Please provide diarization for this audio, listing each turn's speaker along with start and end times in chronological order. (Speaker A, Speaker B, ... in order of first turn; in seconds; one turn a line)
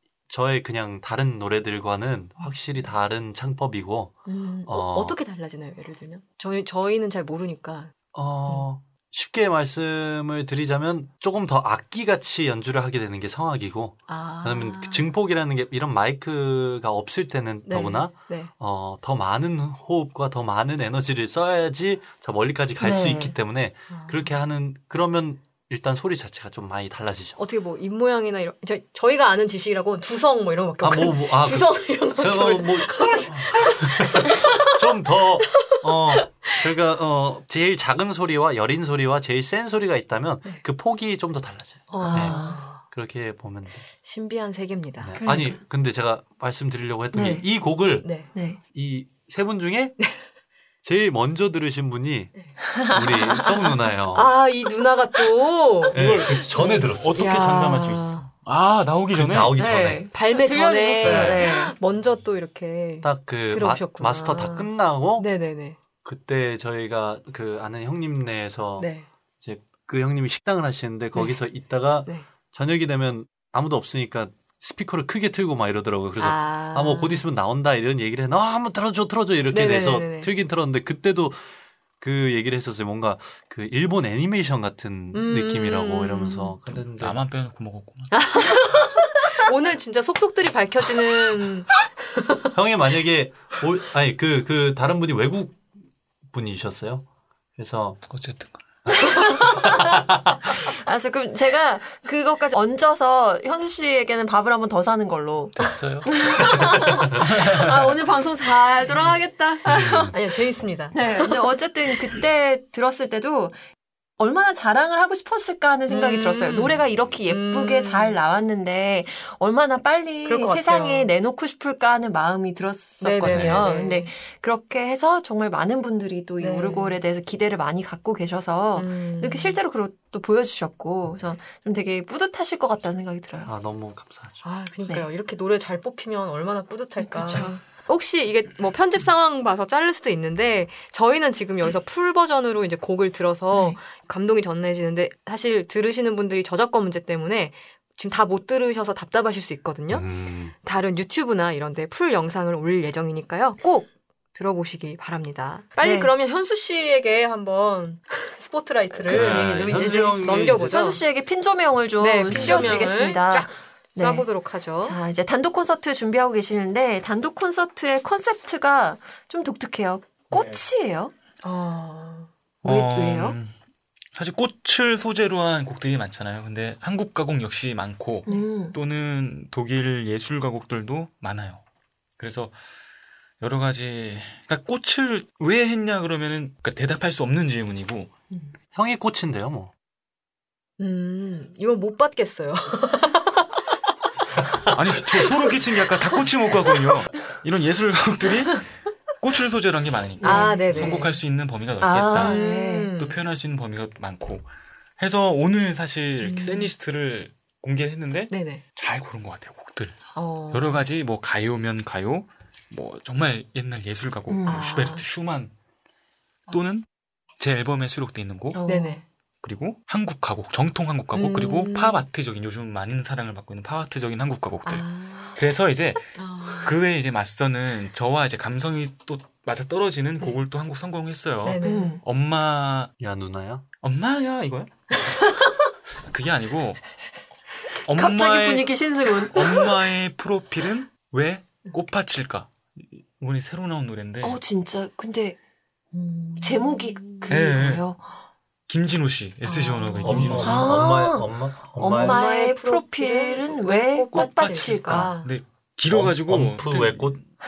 Speaker A: 0.3-5.2
Speaker B: 4.3-7.9
Speaker A: 8.1-27.4
Speaker B: 14.1-15.1
Speaker B: 17.7-18.5
Speaker C: 22.8-23.4
Speaker B: 23.9-24.3
Speaker B: 27.4-34.7
Speaker A: 30.8-43.8
Speaker B: 41.9-42.8
Speaker C: 42.0-42.6
Speaker B: 44.0-45.2
Speaker A: 45.0-48.1
Speaker C: 45.2-45.6
Speaker C: 47.1-47.5
Speaker B: 48.0-48.3
Speaker C: 48.3-48.6
Speaker A: 48.7-50.0
Speaker A: 50.8-54.3
Speaker C: 52.7-53.7
Speaker B: 54.1-56.0
Speaker A: 55.9-57.6
Speaker D: 55.9-59.5
Speaker B: 57.1-58.3
Speaker A: 59.1-60.1
Speaker C: 59.5-61.7
Speaker B: 60.1-65.8
Speaker A: 61.0-61.4
Speaker A: 63.0-65.3
Speaker A: 66.0-68.9
Speaker B: 68.8-69.1
Speaker A: 69.4-81.4
Speaker B: 76.2-77.2
Speaker B: 79.5-80.3
Speaker A: 82.0-87.2
Speaker B: 85.1-86.6
Speaker D: 86.7-88.1
Speaker B: 88.1-92.5
Speaker A: 92.5-95.6
Speaker A: 96.3-97.0
Speaker A: 97.6-98.0
Speaker D: 98.1-98.6
Speaker C: 99.0-110.2
Speaker A: 99.3-100.5
Speaker D: 105.6-107.7
Speaker A: 106.8-107.3
Speaker A: 109.7-110.1
Speaker B: 110.1-111.0
Speaker C: 110.9-113.6
Speaker C: 114.2-133.5
Speaker B: 115.9-118.2
Speaker B: 120.2-121.1
Speaker B: 123.0-124.1
Speaker A: 123.3-123.7
Speaker B: 126.4-127.0
Speaker B: 128.8-129.6
Speaker A: 133.4-134.4
Speaker B: 134.4-150.1
Speaker C: 137.1-137.6
Speaker A: 149.9-150.5
Speaker B: 150.6-161.0
Speaker C: 155.8-156.1
Speaker C: 158.9-164.3
Speaker A: 159.1-160.8
Speaker B: 162.0-165.0
Speaker D: 162.3-162.8
Speaker C: 164.8-171.1
Speaker D: 170.3-170.6
Speaker B: 171.4-172.3
Speaker D: 172.6-173.5
Speaker C: 172.6-173.4
Speaker D: 174.2-181.6
Speaker C: 178.3-178.8
Speaker D: 182.2-182.5
Speaker D: 183.4-188.1
Speaker A: 188.7-189.7
Speaker B: 190.8-193.4
Speaker D: 194.7-198.7
Speaker D: 199.2-202.4
Speaker C: 200.2-201.1
Speaker B: 200.2-201.1
Speaker C: 201.8-202.9
Speaker B: 202.2-203.2
Speaker D: 203.0-204.5
Speaker D: 205.0-210.0
Speaker C: 206.3-206.7
Speaker B: 208.3-208.6
Speaker B: 210.2-210.7
Speaker D: 210.5-215.5
Speaker C: 214.3-214.7
Speaker B: 214.5-215.0
Speaker D: 216.5-216.9
Speaker D: 217.4-218.6
Speaker C: 218.5-219.0
Speaker B: 218.7-219.0
Speaker D: 219.4-232.9
Speaker B: 221.2-222.0
Speaker B: 224.7-225.4
Speaker B: 226.2-226.7
Speaker B: 231.4-232.0
Speaker C: 231.6-232.0
Speaker A: 233.0-233.7
Speaker D: 233.8-234.7
Speaker D: 236.1-236.8
Speaker D: 237.8-244.4
Speaker C: 237.9-239.8
Speaker C: 244.2-245.4
Speaker B: 245.9-247.3
Speaker C: 246.4-248.0
Speaker D: 247.3-247.8
Speaker D: 248.7-250.7
Speaker B: 249.5-250.6
Speaker A: 250.0-252.2
Speaker C: 250.4-255.1
Speaker B: 251.9-255.3
Speaker D: 254.1-257.2
Speaker A: 255.9-257.2